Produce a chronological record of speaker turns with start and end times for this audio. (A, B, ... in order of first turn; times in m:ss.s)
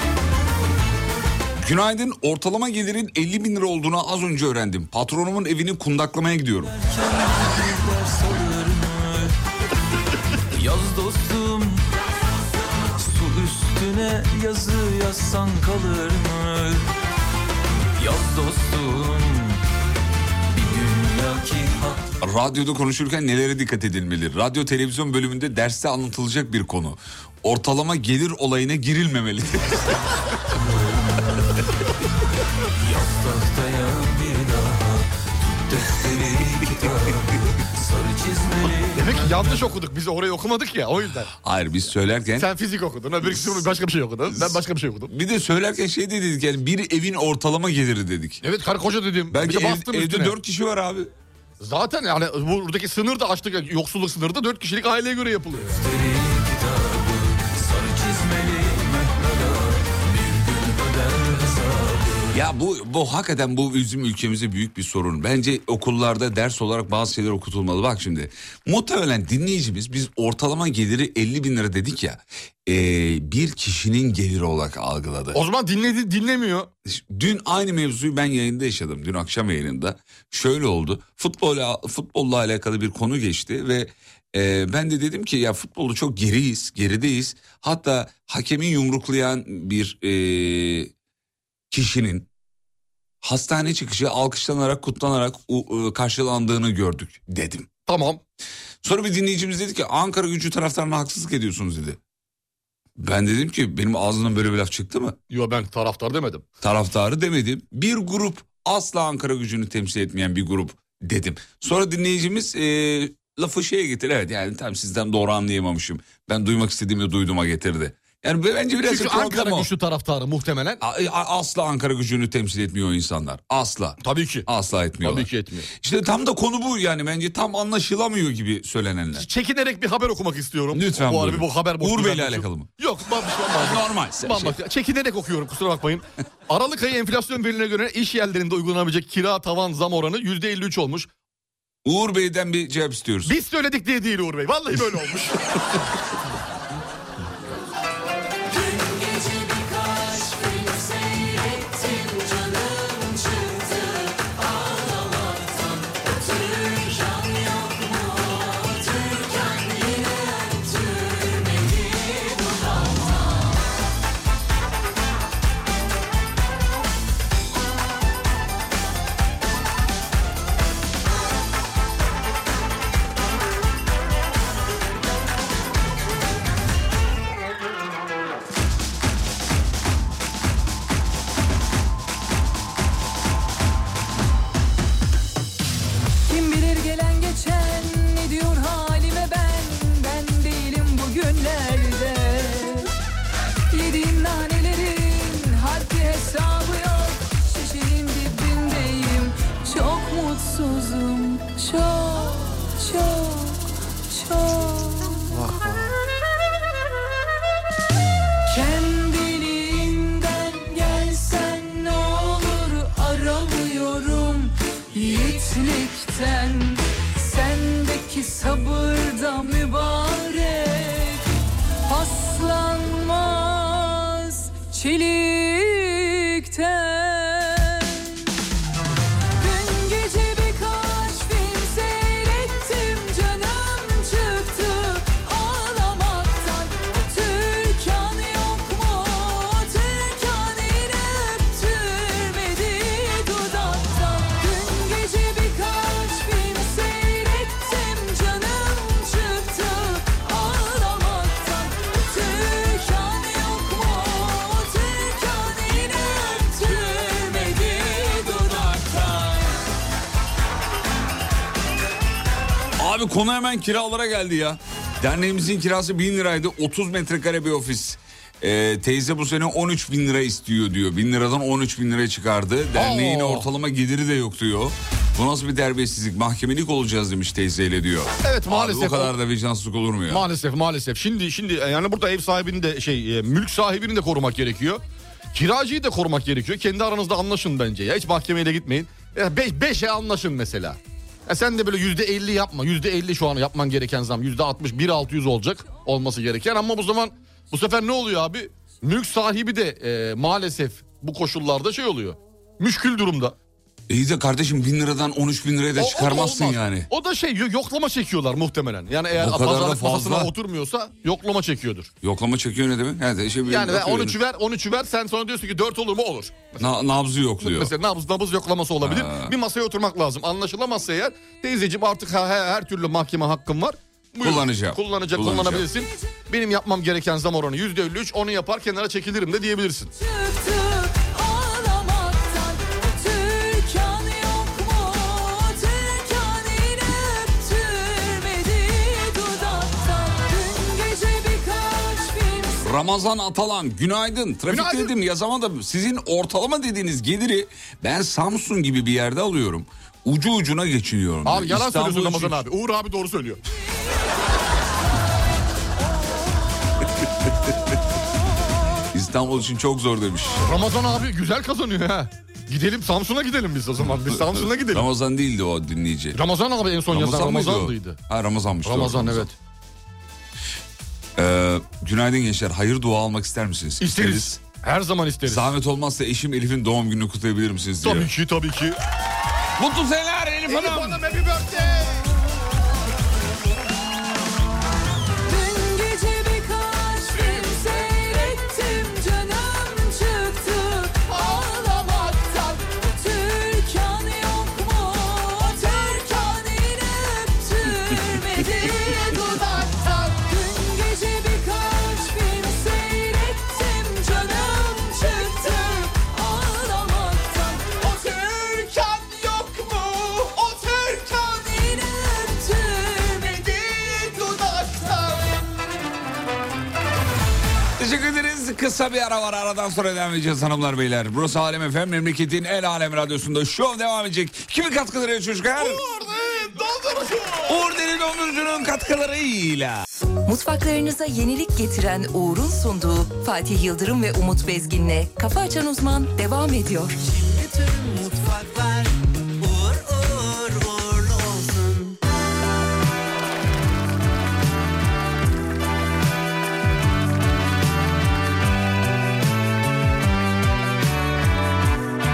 0:01.6-0:06.7 A
0:06.7-0:09.3 B
0:10.5-0:11.8 B
0:13.0-0:16.9 B
0:18.0-0:19.6 B
0:20.5-0:22.2 B
0:22.2-0:30.0 A
0:30.5-0:31.6 B
0:32.8-0:39.7 B
0:39.0-0:41.3 C
0:41.4-0:42.5 A
0:42.4-0:45.1 C
0:43.2-0:43.7 A
0:44.3-0:48.4 A
0:48.4-0:50.4 C
0:49.3-0:51.1 A
0:51.6-0:55.7 C
0:55.7-1:02.4 B
1:02.3-1:15.4 A
1:15.3-1:16.7 C
1:16.8-1:30.9 A
1:31.7-1:32.3 A
1:33.2-1:37.7 A
1:37.9-1:38.2 C
1:38.8-1:42.0 A
1:43.0-1:45.2 A
1:45.3-1:46.4 C
1:46.6-1:59.7 A
1:58.8-2:00.8 C
2:00.8-2:09.3 A
2:04.0-2:04.5 C
2:05.0-2:05.7 C
2:09.2-2:21.1 C
2:10.7-2:12.7 A
2:13.6-2:14.6 A
2:21.8-2:23.4 A
2:23.2-2:25.6 C
2:28.5-2:43.4 D
3:06.3-3:12.9 D
3:13.7-3:25.2 D
3:28.5-3:41.3 D
3:41.9-3:48.2 D
3:49.4-4:19.6 D
4:22.8-4:40.3 A
4:32.8-4:33.5 C
4:38.2-4:39.1 C
4:40.1-4:44.8 C
4:45.3-5:03.4 C
5:03.9-5:06.9 A
5:05.8-5:11.9 C
5:09.1-5:10.3 A
5:12.0-5:14.2 A
5:13.5-5:16.7 C
5:16.6-5:17.7 A
5:17.4-5:29.9 C
5:18.8-5:19.4 A
5:24.2-5:25.7 A
5:30.0-5:42.6 D
5:42.6-5:52.4 A
5:44.5-5:44.9 C
5:51.2-5:53.4 C
5:58.9-6:00.6 A
6:00.4-6:04.9 C
6:04.1-6:06.2 A
6:06.1-6:08.0 C
6:06.9-6:09.3 A
6:08.6-6:09.4 C
6:11.2-6:14.4 A
6:13.8-6:15.5 C
6:15.2-6:18.1 A
6:17.8-6:18.8 C
6:19.6-6:21.0 A
6:20.5-6:22.1 C
6:25.3-6:47.7 D
6:47.9-6:51.4 C
6:52.5-6:52.8 D
6:53.2-6:55.2 C
6:57.8-7:05.8 A
7:05.6-7:07.7 C
7:07.5-7:09.8 A
7:10.3-7:17.0 E
7:17.1-7:22.0 F